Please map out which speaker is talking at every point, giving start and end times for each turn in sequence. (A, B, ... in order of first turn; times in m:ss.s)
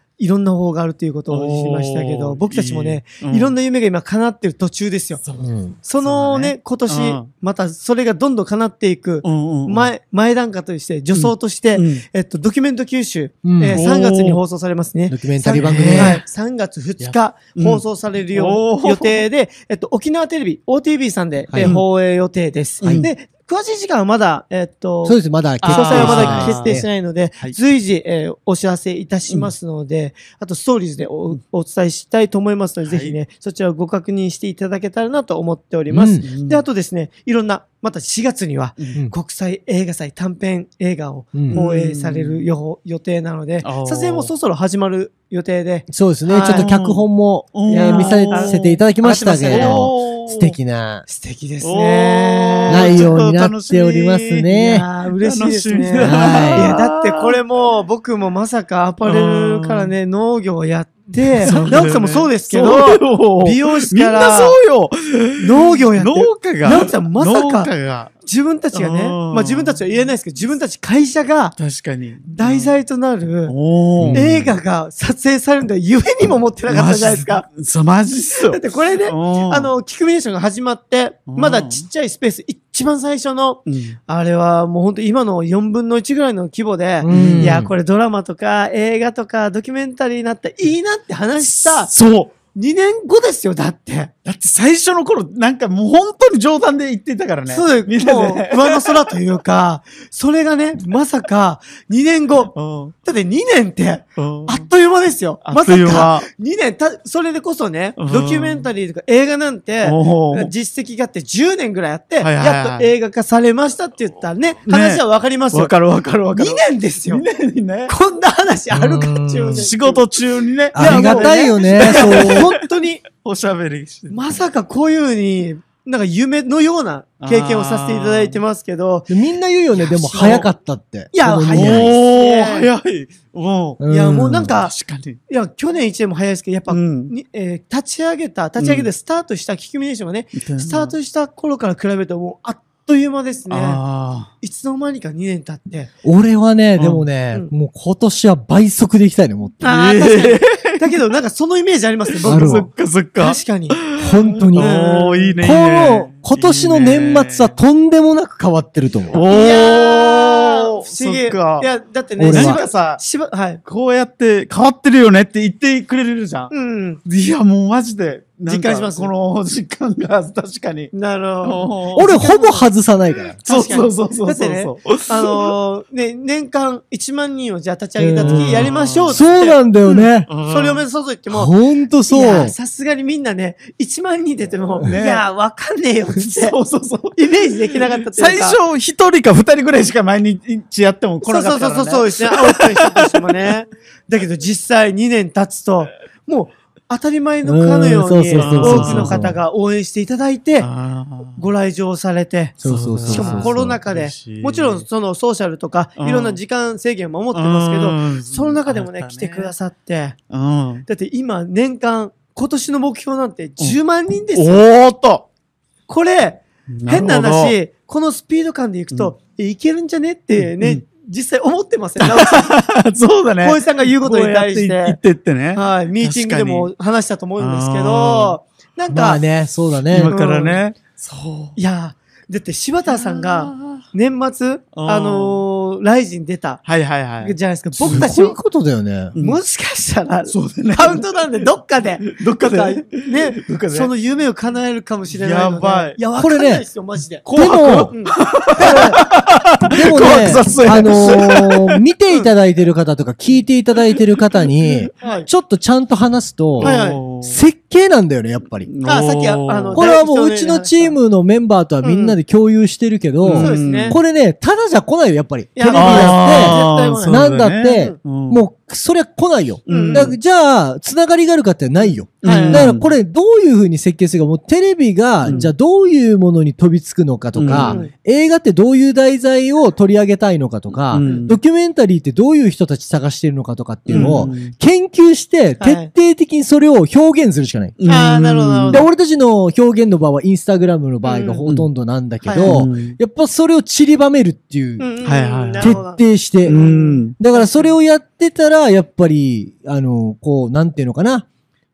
0:00.2-0:05.2 A
0:01.3-0:03.5 B
0:05.2-0:07.3 B
0:05.4-0:05.8 C
0:05.8-0:46.7 A
0:09.2-0:09.9 B
0:11.2-0:12.0 B
0:13.4-0:13.8 C
0:13.7-0:14.4 B
0:15.1-0:16.2 C
0:15.6-0:16.2 B
0:17.0-0:19.2 B
0:21.5-0:21.8 C
0:22.8-0:23.1 B
0:22.8-0:23.1 C
0:25.0-0:26.9 C
0:25.6-0:26.8 B
0:32.8-0:33.2 B
0:35.9-0:36.2 C
0:36.2-0:36.6 B
0:41.3-0:41.6 C
0:41.5-0:42.5 B
0:43.6-0:44.3 B
0:45.9-0:51.0 C
0:46.5-0:48.8 B
0:47.7-0:49.9 A
0:49.5-0:50.6 B
0:51.1-0:53.2 A
0:51.6-0:57.4 B
0:52.7-0:54.9 C
0:54.6-1:04.6 A
0:56.0-0:56.7 C
0:59.0-0:59.9 B
1:01.4-1:08.1 B
1:01.5-1:01.8 C
1:05.4-1:07.7 A
1:08.2-1:11.6 A
1:08.7-1:10.0 B
1:11.6-1:12.8 B
1:12.3-1:13.6 A
1:13.5-1:14.5 B
1:14.0-1:14.4 C
1:14.1-1:17.5 A
1:16.7-1:19.7 B
1:18.4-1:31.9 A
1:21.3-1:21.8 B
1:23.7-1:24.0 B
1:27.0-1:27.7 C
1:27.1-1:27.6 B
1:31.4-1:32.3 B
1:32.5-1:34.1 A
1:34.2-1:39.2 B
1:37.5-1:55.7 A
1:42.5-1:42.9 B
1:44.2-1:44.7 B
1:45.4-1:46.3 B
1:48.0-1:48.7 B
1:49.8-1:50.5 B
1:52.2-1:52.9 B
1:54.7-1:57.9 B
1:56.3-1:57.2 A
1:57.9-2:00.1 A
1:58.7-1:59.7 C
1:59.5-2:04.3 B
2:00.7-2:02.5 C
2:00.7-2:03.0 A
2:04.1-2:09.2 A
2:07.2-2:08.4 B
2:09.1-2:11.9 C
2:09.8-2:10.5 A
2:09.8-2:10.5 B
2:11.1-2:12.7 A
2:11.5-2:13.8 B
2:13.8-2:14.5 C
2:13.9-2:14.8 A
2:14.6-2:15.2 B
2:15.3-2:23.8 A
2:16.7-2:17.1 B
2:18.6-2:18.9 B
2:20.4-2:20.9 B
2:23.5-2:24.3 B
2:24.4-2:25.9 A
2:26.0-2:29.6 C
2:26.8-2:27.1 B
2:29.6-2:30.8 B
2:29.6-2:33.8 A
2:32.2-2:37.6 B
2:32.3-2:32.7 C
2:34.0-2:34.7 C
2:34.6-2:35.4 A
2:35.4-2:39.2 C
2:39.1-2:41.7 B
2:39.3-2:43.6 A
2:42.2-2:42.6 C
2:42.3-2:43.0 B
2:43.6-2:46.5 B
2:46.5-2:47.0 A
2:47.1-2:52.1 B
2:48.5-2:49.1 A
2:50.9-2:52.7 A
2:52.0-2:53.4 C
2:53.4-2:55.5 B
2:53.5-3:01.5 A
2:58.0-3:00.3 C
2:58.2-2:59.2 B
3:00.3-3:00.8 B
3:01.3-3:02.6 C
3:02.1-3:06.6 A
3:04.8-3:05.2 B
3:06.3-3:07.2 B
3:07.2-3:08.6 A
3:07.9-3:13.5 B
3:11.2-3:20.7 A
3:17.4-3:19.4 C
3:18.4-3:19.2 B
3:20.6-3:21.4 B
3:21.4-3:22.6 A
3:22.6-3:23.8 C
3:22.6-3:24.8 B
3:23.1-3:30.2 A
3:26.0-3:26.4 B
3:27.3-3:29.5 B
3:30.3-3:30.8 B
3:30.9-3:34.6 A
3:34.3-3:35.2 B
3:35.9-3:42.6 A
3:36.7-3:37.6 B
3:40.4-3:40.8 B
3:42.0-3:46.7 B
3:43.4-3:45.0 A
3:45.5-3:49.2 A
3:47.4-3:48.4 B
3:48.9-3:50.1 C
3:49.9-3:51.6 B
3:50.1-3:50.6 A
3:51.6-3:56.7 A
3:52.9-3:53.8 B
3:54.7-3:55.4 B
3:56.7-3:57.4 B
3:57.2-3:58.4 A
3:57.8-3:59.2 C
3:59.2-3:59.4 B
3:59.2-4:07.3 A
4:00.3-4:01.0 B
4:02.1-4:03.9 B
4:05.1-4:06.0 B
4:06.2-4:06.6 C
4:07.2-4:11.8 B
4:07.3-4:07.9 C
4:07.9-4:09.0 A
4:08.6-4:09.0 C
4:09.7-4:18.7 C
4:13.9-4:14.4 B
4:15.0-4:15.3 A
4:16.6-4:17.4 B
4:16.6-4:17.0 A
4:18.7-4:19.9 B
4:18.8-4:21.0 A
4:19.8-4:47.8 C
4:21.8-4:22.2 A
4:23.2-4:24.0 B
4:23.4-4:24.0 A
4:25.6-4:28.0 A
4:25.7-4:28.4 B
4:29.7-4:30.1 B
4:29.7-4:30.1 A
4:31.8-4:32.7 A
4:32.2-4:32.9 B
4:35.2-4:35.5 A
4:35.2-4:35.5 B
4:37.4-4:37.8 B
4:37.5-4:37.9 A
4:40.9-4:41.4 B
4:41.0-4:41.3 A
4:43.9-4:44.5 B
4:43.9-4:44.2 A
4:45.6-4:45.9 A
4:47.8-4:48.8 B
4:47.9-4:48.9 A
4:48.7-4:54.9 C
4:51.0-4:51.4 A
4:52.2-4:52.7 A
4:52.4-4:53.0 B
4:54.8-4:57.7 A
4:55.0-4:55.8 B
4:55.6-4:56.6 C
4:56.4-4:57.2 B
4:57.2-5:01.2 C